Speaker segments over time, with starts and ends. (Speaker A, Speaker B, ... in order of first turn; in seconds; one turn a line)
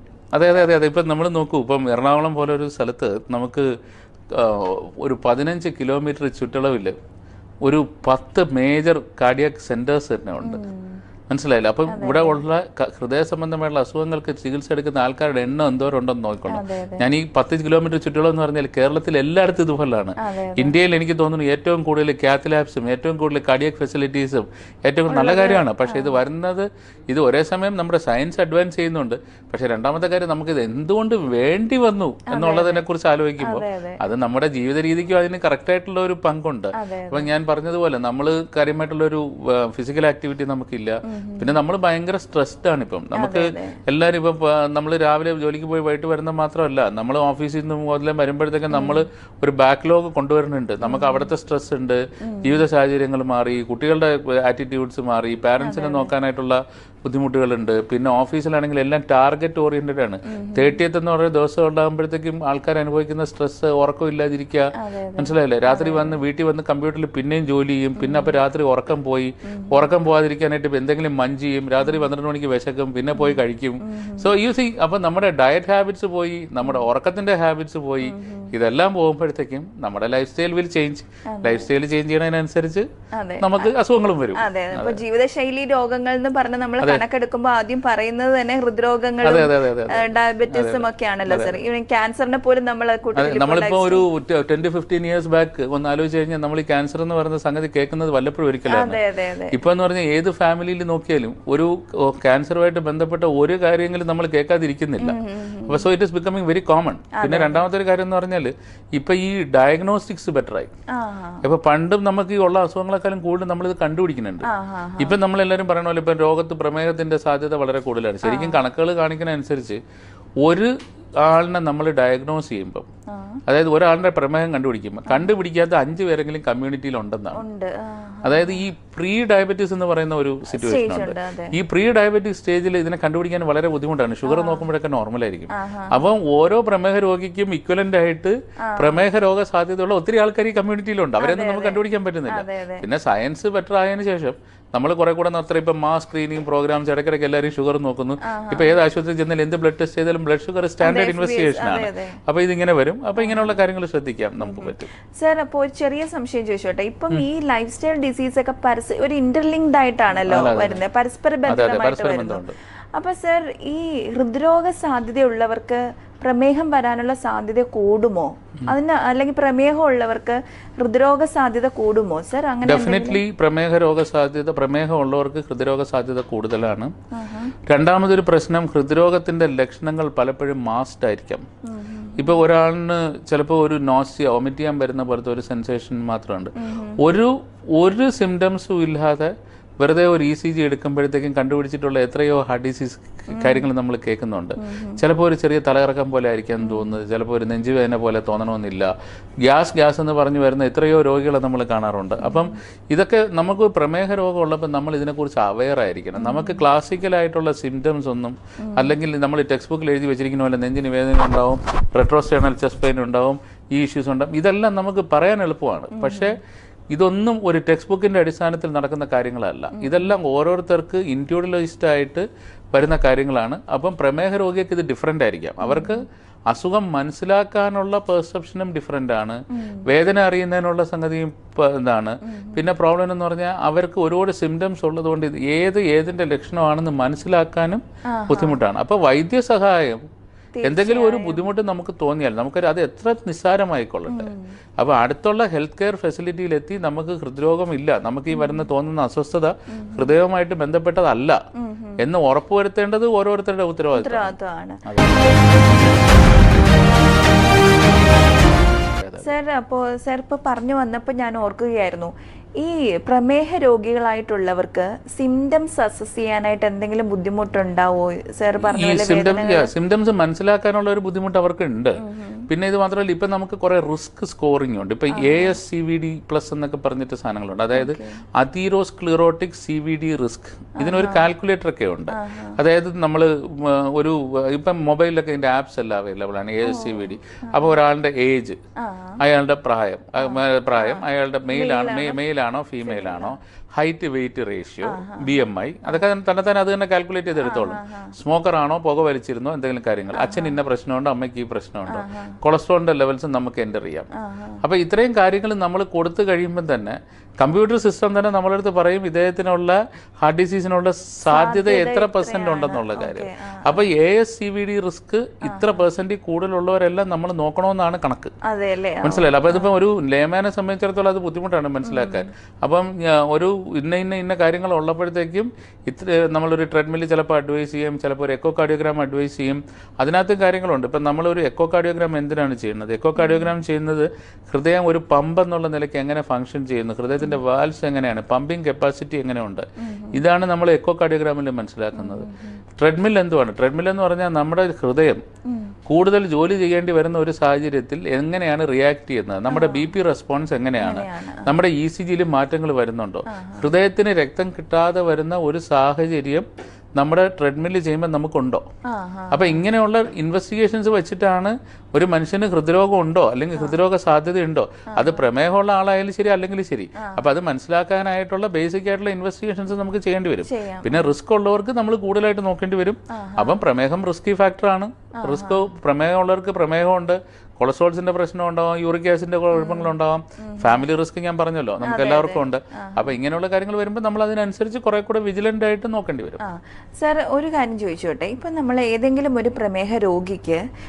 Speaker A: 0.3-3.7
Speaker A: 4.3-6.9
Speaker A: 7.6-10.6
Speaker B: 10.4-11.0
Speaker A: 11.3-82.9
Speaker B: 11.9-12.4
Speaker B: 16.5-17.1
Speaker B: 20.2-20.7
Speaker B: 25.1-26.2
Speaker B: 32.3-32.8
Speaker B: 33.4-34.0
Speaker B: 36.8-37.3
Speaker B: 41.0-41.6
Speaker B: 43.1-43.8
Speaker B: 48.7-49.0
Speaker B: 50.8-51.3
Speaker B: 52.2-52.6
Speaker B: 55.6-56.1
Speaker B: 60.3-60.8
Speaker B: 64.8-66.2
Speaker B: 68.0-68.4
Speaker B: 69.5-69.8
Speaker B: 73.1-74.3
Speaker B: 78.0-78.5
Speaker B: 81.3-81.7
Speaker B: 83.1-83.7
Speaker A: 83.4-85.0
Speaker B: 84.3-94.0
Speaker A: 89.2-91.6
Speaker A: 93.1-110.7
Speaker B: 98.7-99.6
Speaker B: 105.0-105.9
Speaker B: 107.1-107.6
Speaker B: 110.9-111.5
Speaker A: 111.4-114.5
Speaker B: 114.4-115.2
Speaker A: 115.0-119.8
Speaker B: 118.2-118.6
Speaker A: 120.4-122.8
Speaker B: 123.1-123.4
Speaker A: 123.5-127.4
Speaker B: 127.3-128.6
Speaker A: 128.2-154.9
Speaker B: 130.5-131.6
Speaker B: 134.2-134.7
Speaker B: 135.5-136.0
Speaker B: 138.6-139.0
Speaker B: 141.2-142.8
Speaker B: 148.2-148.8
Speaker B: 150.8-152.2
Speaker B: 153.2-153.6
Speaker B: 154.4-173.2
Speaker A: 160.2-160.8
Speaker A: 161.5-162.6
Speaker A: 172.6-176.9
Speaker B: 177.1-177.5
Speaker A: 177.7-181.4
Speaker B: 181.7-182.4
Speaker A: 182.2-198.9
Speaker B: 186.6-187.0
Speaker B: 193.3-193.7
Speaker B: 194.6-195.0
Speaker B: 196.6-196.9
Speaker A: 199.4-216.3
Speaker B: 202.2-202.6
Speaker B: 206.2-206.6
Speaker B: 208.6-208.9
Speaker B: 215.9-216.3
Speaker A: 216.9-240.0
Speaker B: 219.7-220.1
Speaker B: 225.6-226.0
Speaker B: 229.5-229.8
Speaker B: 232.2-232.7
Speaker B: 238.1-238.6
Speaker B: 240.6-241.4
Speaker A: 240.6-251.4
Speaker B: 244.1-244.5
Speaker B: 248.3-248.7
Speaker B: 249.7-250.1
Speaker B: 251.6-252.0
Speaker A: 252.0-255.3
Speaker B: 253.9-254.8
Speaker A: 259.0-259.3
Speaker B: 259.2-269.7
Speaker A: 268.6-272.0
Speaker B: 272.0-272.5
Speaker A: 272.5-288.6
Speaker B: 275.1-275.6
Speaker B: 277.7-278.2
Speaker B: 280.8-281.2
Speaker B: 282.1-282.6
Speaker B: 286.6-287.7
Speaker B: 288.8-289.2
Speaker A: 289.2-304.1
Speaker B: 290.2-292.2
Speaker B: 292.8-293.3
Speaker B: 294.8-296.0
Speaker B: 297.4-298.1
Speaker B: 300.1-300.6
Speaker B: 301.9-302.4
Speaker B: 304.2-304.6
Speaker A: 304.6-318.3
Speaker B: 311.3-313.8
Speaker B: 315.4-315.8
Speaker B: 318.5-319.7
Speaker A: 319.0-345.2
Speaker B: 321.8-322.2
Speaker B: 333.2-333.5
Speaker B: 339.8-340.2
Speaker B: 341.9-342.6
Speaker B: 345.5-345.7
Speaker A: 345.9-358.6
Speaker B: 349.5-349.9
Speaker B: 350.8-351.5
Speaker B: 353.3-353.7
Speaker B: 358.9-359.6
Speaker A: 359.3-386.4
Speaker B: 364.9-365.2
Speaker B: 367.0-367.2
Speaker B: 370.4-371.0
Speaker B: 373.1-373.6
Speaker B: 375.2-375.7
Speaker B: 379.5-380.8
Speaker B: 381.8-383.1
Speaker B: 386.4-390.6